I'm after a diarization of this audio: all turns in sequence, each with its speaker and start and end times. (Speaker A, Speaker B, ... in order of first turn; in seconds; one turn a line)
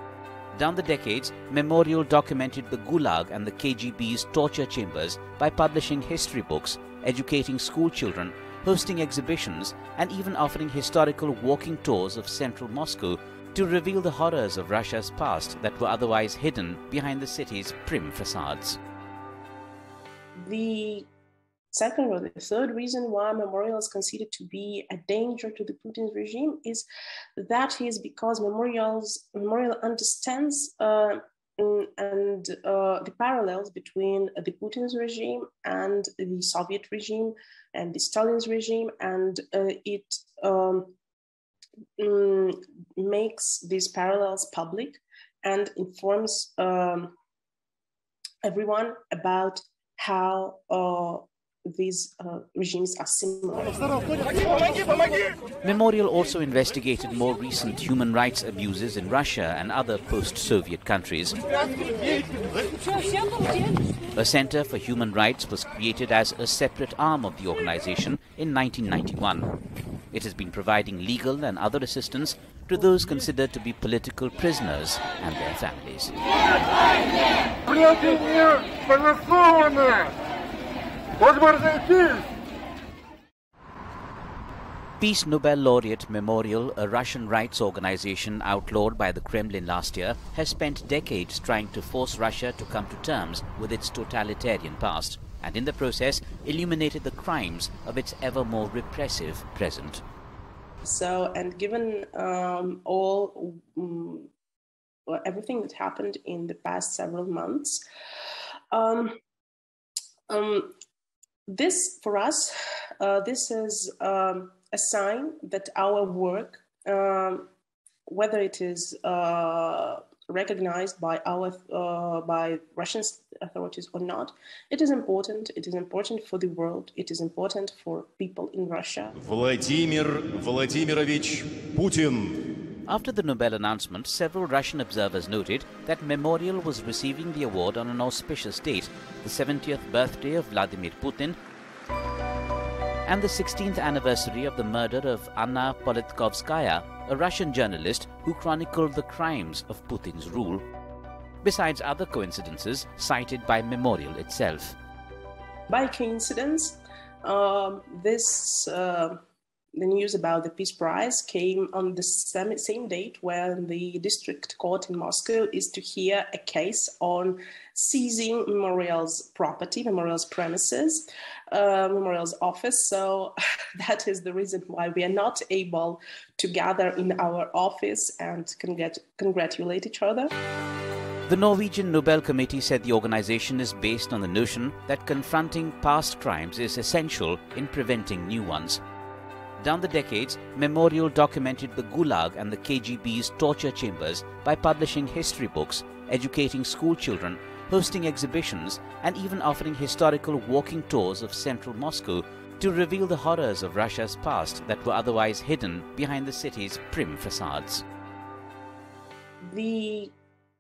Speaker A: 0.5-18.8
Speaker B: 20.4-21.1
Speaker B: 21.7-26.9
Speaker B: 27.4-40.9
Speaker B: 42.0-47.1
Speaker B: 48.4-54.5
Speaker A: 55.6-61.4
Speaker A: 64.2-69.5
Speaker A: 70.1-76.1
Speaker A: 85.0-100.0
Speaker B: 100.8-104.3
Speaker B: 105.1-107.8
Speaker B: 108.7-109.2
Speaker B: 110.3-110.7
Speaker B: 111.5-117.5
Speaker B: 118.1-129.2
Speaker C: 129.2-132.4
Speaker A: 132.9-141.4
Speaker A: 143.1-150.7
Speaker A: 151.4-154.8
Speaker B: 155.7-159.2
Speaker B: 159.7-180.3
Speaker A: 181.3-188.8
Speaker A: 189.6-207.8
Speaker B: 209.4-210.1